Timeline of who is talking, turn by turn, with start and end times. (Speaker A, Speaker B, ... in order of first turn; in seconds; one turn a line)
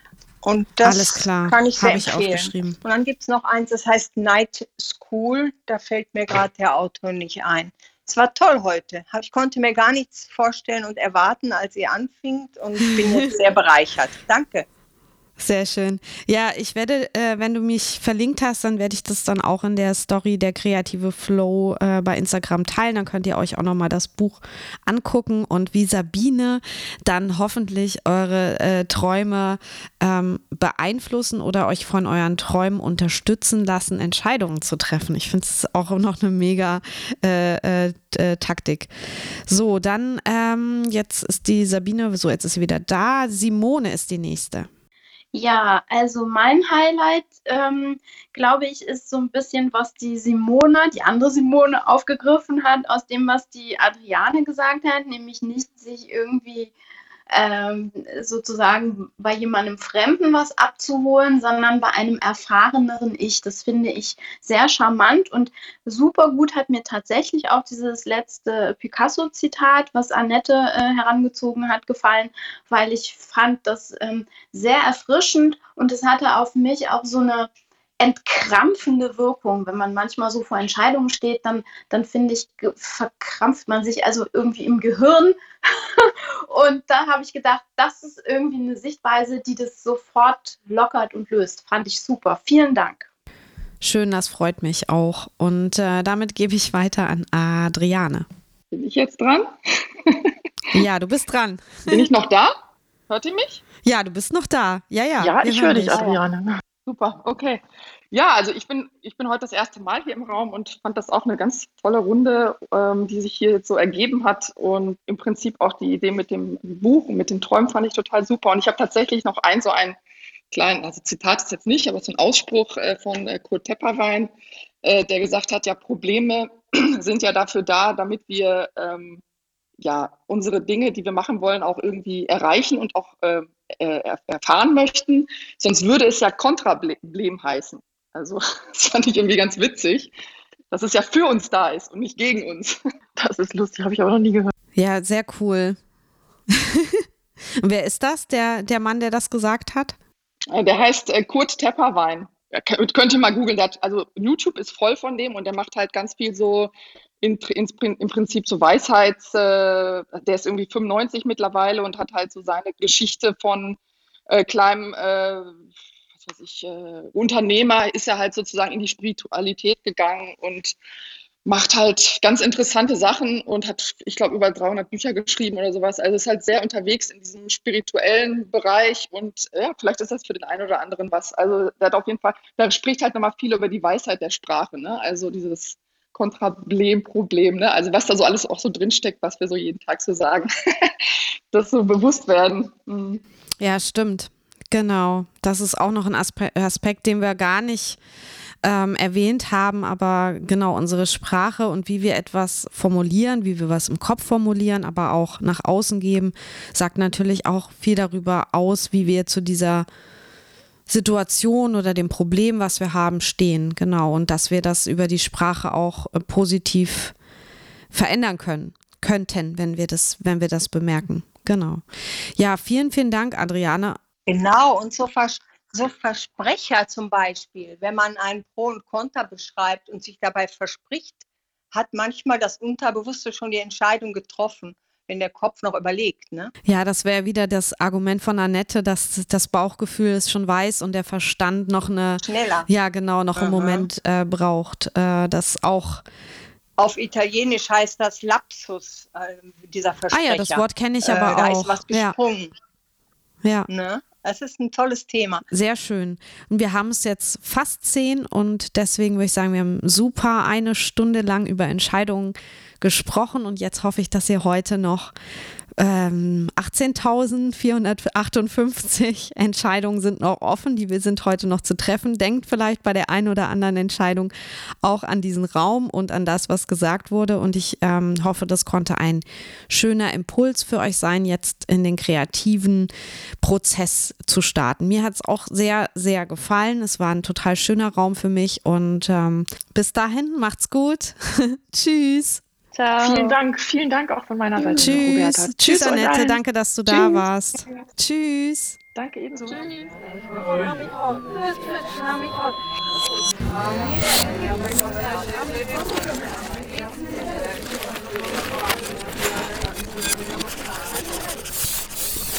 Speaker A: 0.4-14.7
Speaker B: 0.8-2.8
Speaker B: 15.4-38.9
Speaker B: 39.5-44.7
Speaker C: 45.3-56.7
Speaker C: 57.3-77.5
Speaker C: 78.0-85.4
Speaker C: 86.0-93.1
Speaker B: 93.8-98.3
Speaker D: 98.7-99.5
Speaker D: 100.0-100.3
Speaker B: 100.7-102.1
Speaker D: 101.9-102.5
Speaker D: 103.1-103.6
Speaker B: 103.8-106.1
Speaker E: 105.2-106.6
Speaker D: 106.8-120.0
Speaker D: 120.5-129.2
Speaker D: 129.8-140.1
Speaker D: 140.7-142.7
Speaker E: 143.2-144.5
Speaker B: 144.8-145.8
Speaker B: 146.5-147.0
Speaker B: 147.6-150.0
Speaker D: 150.5-165.6
Speaker D: 166.2-170.8
Speaker D: 171.4-190.9
Speaker D: 191.5-193.2
Speaker B: 193.6-198.0
Speaker B: 198.6-209.9
Speaker B: 210.9-217.1
Speaker B: 217.9-221.8
Speaker B: 222.4-224.0
Speaker A: 224.3-236.5
Speaker B: 236.7-246.0
Speaker A: 242.2-242.7
Speaker A: 243.3-243.9
Speaker A: 246.8-252.5
Speaker B: 250.1-252.2
Speaker B: 253.4-253.7
Speaker A: 253.7-255.4
Speaker B: 255.5-265.1
Speaker B: 265.8-282.9
Speaker B: 283.4-292.4
Speaker C: 292.7-293.4
Speaker E: 293.0-297.2
Speaker B: 294.7-298.8
Speaker E: 298.9-299.9